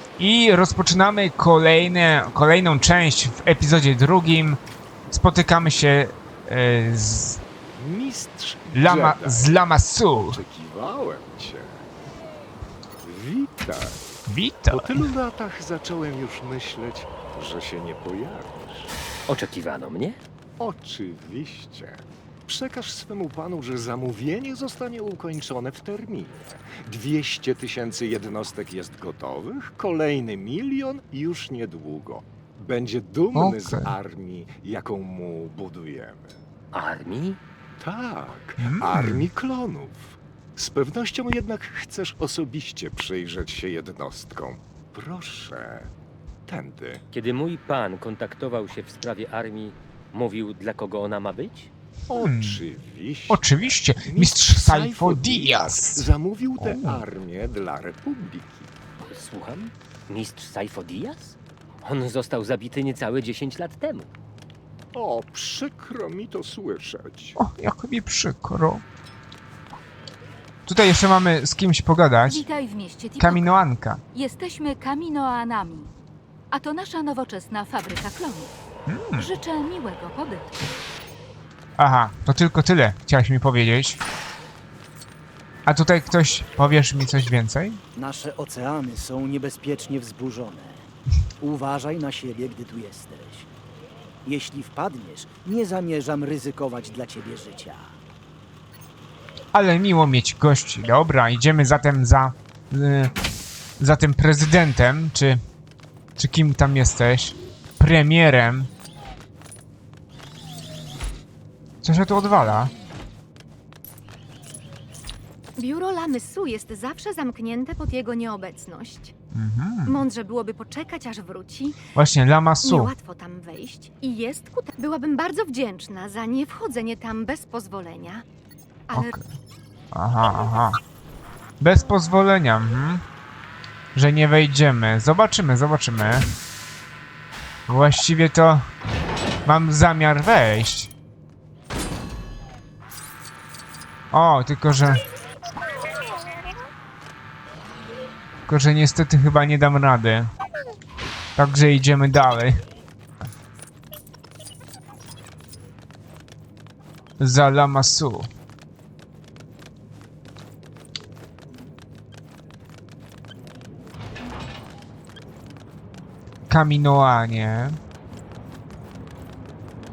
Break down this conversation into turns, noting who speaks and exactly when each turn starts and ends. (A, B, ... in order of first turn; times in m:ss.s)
0:00.2-0:04.6 A
0:05.1-0:07.4 A
0:07.8-0:09.7 B
0:08.7-0:10.4 A
0:10.3-0:11.8 B
0:13.0-0:14.1 B
0:14.3-0:15.1 A
0:14.7-0:18.9 B
0:19.3-0:20.2 C
0:20.6-0:36.4 B
0:33.4-0:33.9 A
0:36.7-0:37.4 C
0:37.8-0:45.9 B
0:38.6-0:39.2 A
0:46.5-0:47.0 B
0:47.1-0:51.7 C
0:52.1-0:58.7 B
0:52.1-0:52.6 A
0:53.3-0:56.0 A
0:56.6-0:57.0 A
0:59.0-1:04.1 C
1:04.9-1:07.4 B
1:07.4-1:08.8 A
1:10.7-1:12.4 A
1:12.3-1:15.9 D
1:13.2-1:14.0 A
1:16.5-1:18.5 D
1:18.9-1:19.3 A
1:19.2-1:20.5 D
1:21.8-1:24.0 A
1:25.7-1:27.8 A
1:28.0-1:30.9 E
1:31.4-1:33.5 E
1:34.2-1:38.0 E
1:39.5-1:43.1 A
1:43.8-1:45.4 A
1:46.2-1:48.7 A
1:51.8-1:52.7 A
1:55.6-1:59.1 F
1:59.3-2:00.0 A
1:59.9-2:01.8 F
2:02.0-2:02.9 A
2:02.6-2:08.2 F
2:08.9-2:09.2 F
2:08.9-2:09.2 A
2:09.9-2:10.8 A
2:11.6-2:13.0 A
2:14.0-2:16.3 A
2:17.7-2:18.6 A
2:19.4-2:20.9 A
2:24.1-2:25.0 A
2:28.5-2:30.3 A
2:31.4-2:32.6 A
2:37.2-2:38.3 A
2:46.5-2:47.8 A